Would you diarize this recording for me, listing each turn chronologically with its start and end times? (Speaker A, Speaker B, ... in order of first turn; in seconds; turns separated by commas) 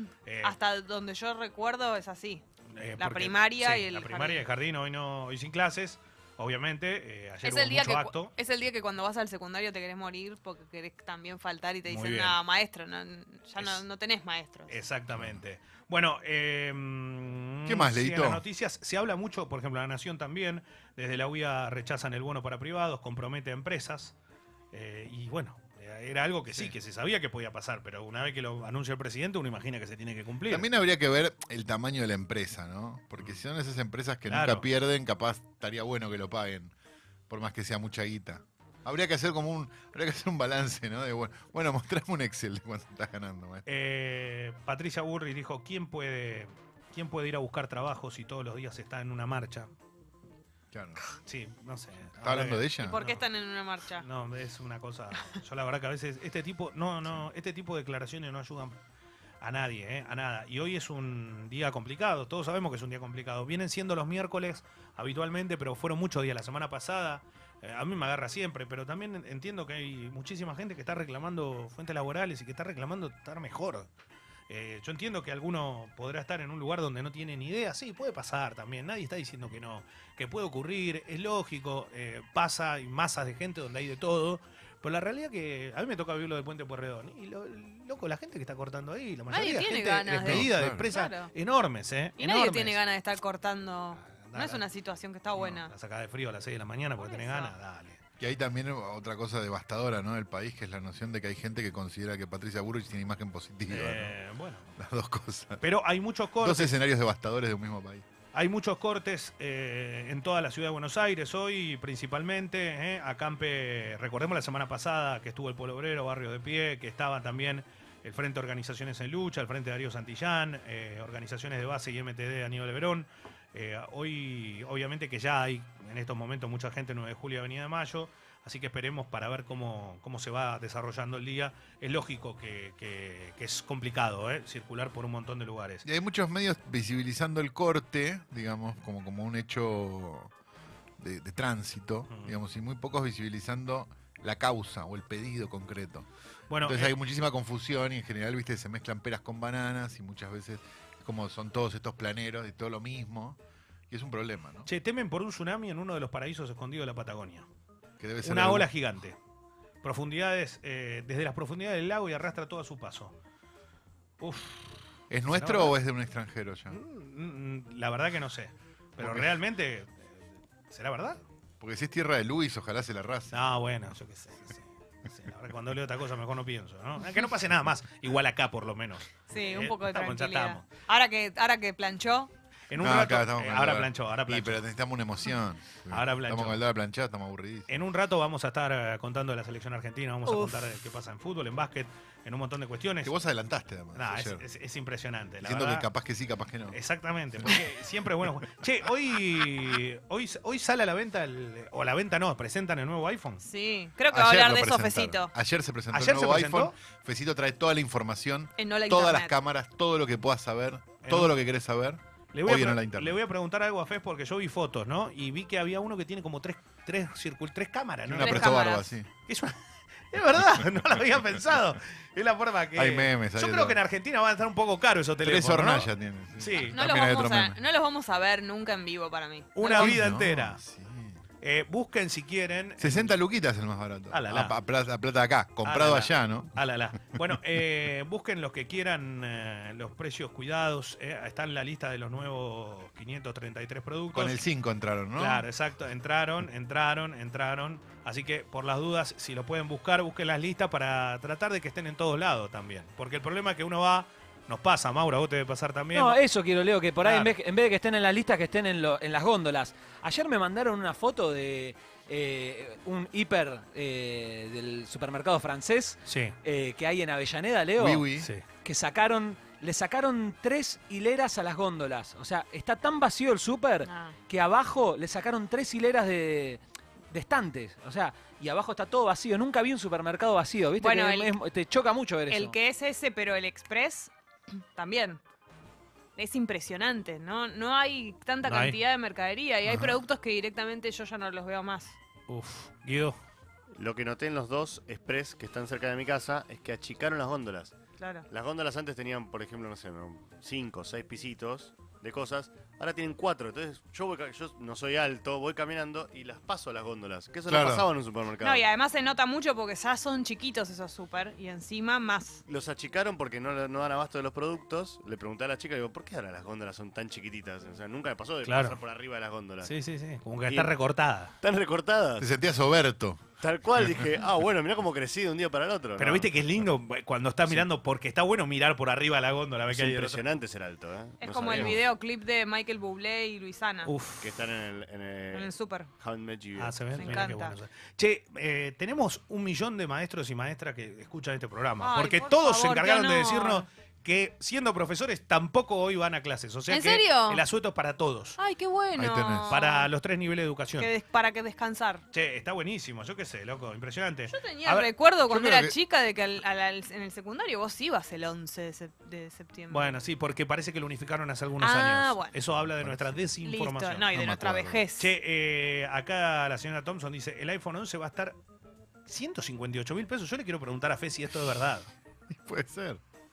Speaker A: 0.3-0.6, Speaker B: 0.4-2.4, Speaker A: 2.7-8.3, Speaker B: 3.0-4.5, Speaker B: 7.4-14.8, Speaker A: 11.9-12.4, Speaker A: 13.6-13.8, Speaker A: 14.7-24.1, Speaker C: 15.1-15.4, Speaker C: 17.7-18.4, Speaker A: 24.7-30.7, Speaker C: 26.5-26.7, Speaker C: 30.5-36.7, Speaker A: 34.3-34.7, Speaker C: 37.3-43.7, Speaker A: 43.7-49.7, Speaker C: 50.7-51.0, Speaker A: 51.2-53.2, Speaker C: 52.2-53.0, Speaker B: 52.8-54.0, Speaker A: 54.0-58.8, Speaker A: 59.4-73.9, Speaker A: 74.5-92.8, Speaker B: 89.3-91.3, Speaker C: 90.1-90.9, Speaker B: 92.2-95.7, Speaker A: 94.0-94.6, Speaker A: 95.4-98.0, Speaker B: 97.0-97.5, Speaker C: 98.2-104.2, Speaker A: 103.7-104.7, Speaker C: 104.8-105.6, Speaker A: 105.6-106.8, Speaker C: 106.4-108.0, Speaker A: 108.3-135.8, Speaker C: 135.8-140.3, Speaker C: 141.0-146.1, Speaker A: 142.1-142.4, Speaker A: 146.5-146.9, Speaker C: 146.6-153.4, Speaker C: 153.9-154.7, Speaker A: 154.7-157.5, Speaker C: 158.0-158.7, Speaker A: 158.2-159.2, Speaker A: 159.8-163.2, Speaker A: 164.2-164.8, Speaker C: 165.1-166.8, Speaker A: 165.3-165.8, Speaker A: 166.7-171.2, Speaker C: 169.0-169.4, Speaker C: 171.6-173.4, Speaker A: 173.3-180.7, Speaker B: 179.3-182.3, Speaker A: 182.7-184.7, Speaker C: 182.8-187.7, Speaker A: 185.9-186.6, Speaker A: 187.7-193.1, Speaker B: 190.3-190.5, Speaker C: 193.0-194.5, Speaker A: 193.9-195.9, Speaker C: 195.4-196.8, Speaker A: 196.7-203.4, Speaker C: 197.3-197.6, Speaker B: 203.4-205.3, Speaker C: 204.1-213.2, Speaker A: 205.9-206.8, Speaker B: 208.6-209.3, Speaker A: 211.0-211.3, Speaker A: 212.3-218.6, Speaker C: 218.1-219.1, Speaker B: 218.2-218.9, Speaker A: 219.3-219.6, Speaker A: 220.1-226.8, Speaker C: 222.8-223.8, Speaker C: 225.2-227.6, Speaker B: 226.6-230.1, Speaker A: 229.6-230.6, Speaker C: 229.7-231.2, Speaker A: 231.4-233.2, Speaker C: 232.8-236.6, Speaker A: 234.1-234.6, Speaker A: 235.6-244.4, Speaker C: 244.1-245.5, Speaker A: 245.2-256.2, Speaker D: 255.9-268.0, Speaker A: 257.0-257.3, Speaker A: 266.1-266.3, Speaker C: 267.8-268.3, Speaker A: 268.2-268.4, Speaker D: 268.6-282.6, Speaker B: 273.8-274.2, Speaker B: 280.8-281.4, Speaker B: 282.3-285.2, Speaker B: 286.2-292.0, Speaker A: 288.4-288.8, Speaker C: 289.7-290.0, Speaker A: 292.3-293.2, Speaker E: 293.8-297.8, Speaker B: 298.0-298.3, Speaker E: 298.3-308.7, Speaker C: 307.5-307.9, Speaker B: 308.4-312.4, Speaker E: 312.5-319.8, Speaker A: 318.4-318.8, Speaker A: 319.6-321.3, Speaker E: 320.4-320.7, Speaker E: 321.4-322.3, Speaker C: 322.2-323.2, Speaker E: 323.4-326.5, Speaker A: 326.0-330.2, Speaker E: 329.7-331.9, Speaker B: 331.2-333.9, Speaker A: 333.9-334.3, Speaker E: 334.2-337.0, Speaker B: 335.3-335.9, Speaker A: 336.6-348.4, Speaker B: 336.9-337.6, Speaker B: 341.8-343.6, Speaker B: 346.7-347.4, Speaker B: 348.4-349.9, Speaker C: 349.0-349.6, Speaker A: 349.5-350.9, Speaker B: 350.8-352.0, Speaker A: 352.1-354.9, Speaker B: 354.3-360.0, Speaker C: 355.3-355.8, Speaker A: 359.7-364.2, Speaker B: 361.6-362.4, Speaker C: 362.6-363.2, Speaker B: 363.4-365.1, Speaker C: 364.1-364.8, Speaker A: 365.0-368.4, Speaker A: 369.1-371.9, Speaker C: 372.3-373.0